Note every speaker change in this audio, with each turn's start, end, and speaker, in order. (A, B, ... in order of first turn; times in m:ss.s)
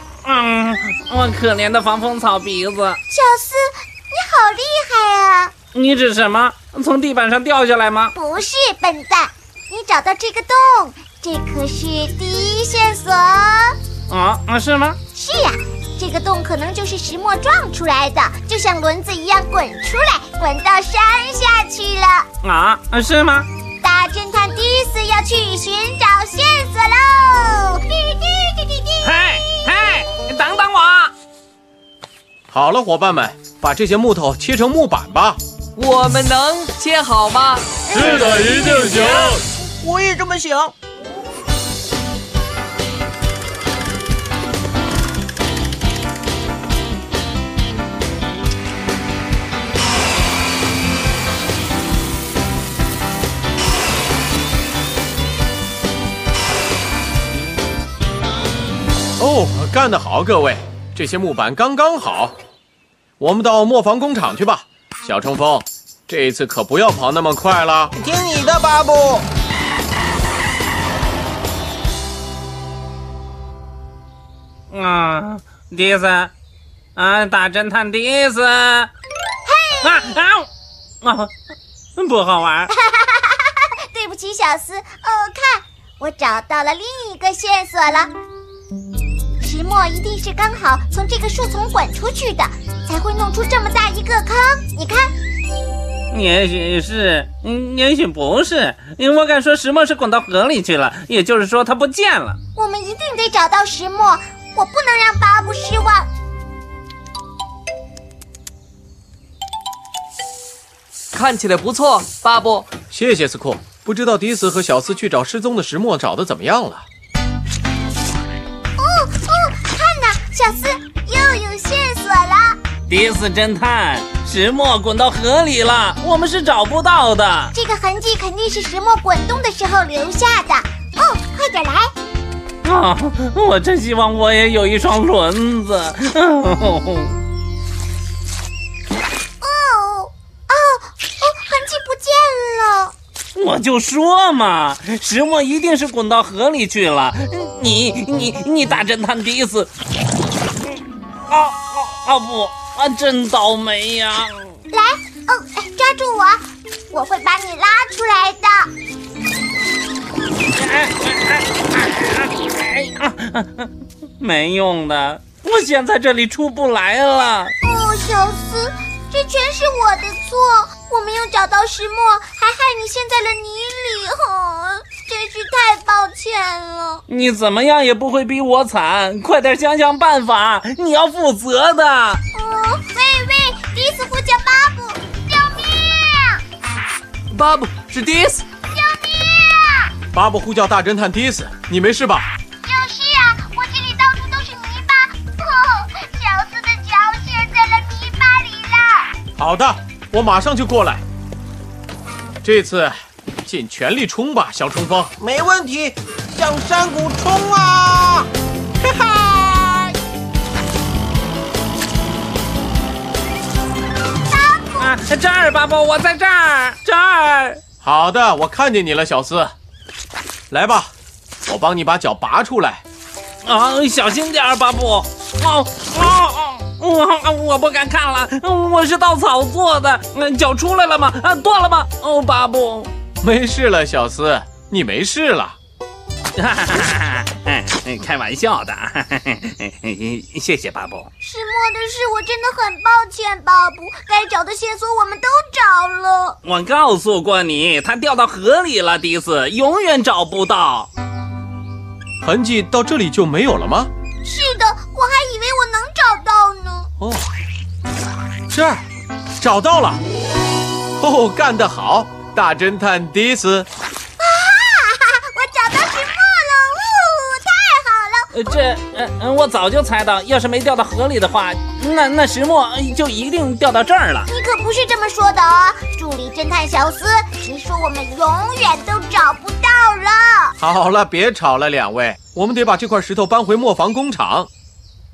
0:00.2-0:03.0 A
0:03.1-0:05.5 B
0:05.7-0:08.1 A
0:08.1-0:13.8 B
0:14.1-0:15.0 A
0:15.1-0:22.3 B
0:22.4-0:23.5 A
0:23.8-0:29.0 B
0:29.0-0:31.1 A
0:32.5-0:35.4 C
0:35.8-0:37.7 D
0:37.9-0:39.4 C
0:37.9-0:40.7 E
0:59.2-1:02.3 C
1:03.2-1:07.9 C
1:08.0-1:09.2 E
1:14.7-1:16.3 A
1:17.0-1:18.9 A
1:19.4-1:20.1 B
1:19.8-1:20.5 A
1:21.0-1:21.3 A
1:22.0-1:22.7 A
1:22.7-1:28.1 B
1:29.4-1:35.1 B
1:36.1-1:42.4 A
1:42.5-1:46.1 B
1:51.1-1:52.7 D
1:52.9-1:56.8 C
1:58.8-2:02.6 B
2:02.9-2:07.5 A
2:07.5-2:11.9 B
2:12.6-2:17.2 A
2:19.4-2:22.9 B
2:23.3-2:29.7 A
2:30.6-2:34.6 A
2:34.7-2:38.7 B
2:40.5-2:47.5 A
2:47.6-2:57.0 B
2:57.1-3:02.2 A
3:02.3-3:06.4 B
3:07.3-3:08.4 D
3:08.7-3:09.9 B
3:10.1-3:12.3 C
3:12.6-3:19.1 B
3:19.4-3:21.0 C
3:22.4-3:25.1 C
3:25.2-3:28.3 E
3:28.8-3:29.9 E
3:34.3-3:34.9 B
3:34.8-3:37.6 A
3:37.8-3:39.5 C
3:40.5-3:40.9 C
3:41.4-3:42.8 C
3:43.4-3:52.9 A
3:53.2-3:55.6 C
3:56.4-4:01.1 A
4:01.2-4:06.4 B
4:06.4-4:10.9 A
4:12.2-4:13.9 C
4:14.2-4:16.9 B
4:17.0-4:17.3 C
4:18.5-4:18.8 C
4:19.4-4:20.0 C
4:21.0-4:23.7 C
4:24.2-4:28.5 B
4:28.3-4:34.3 A
4:34.3-4:40.5 B
4:40.6-4:44.5 C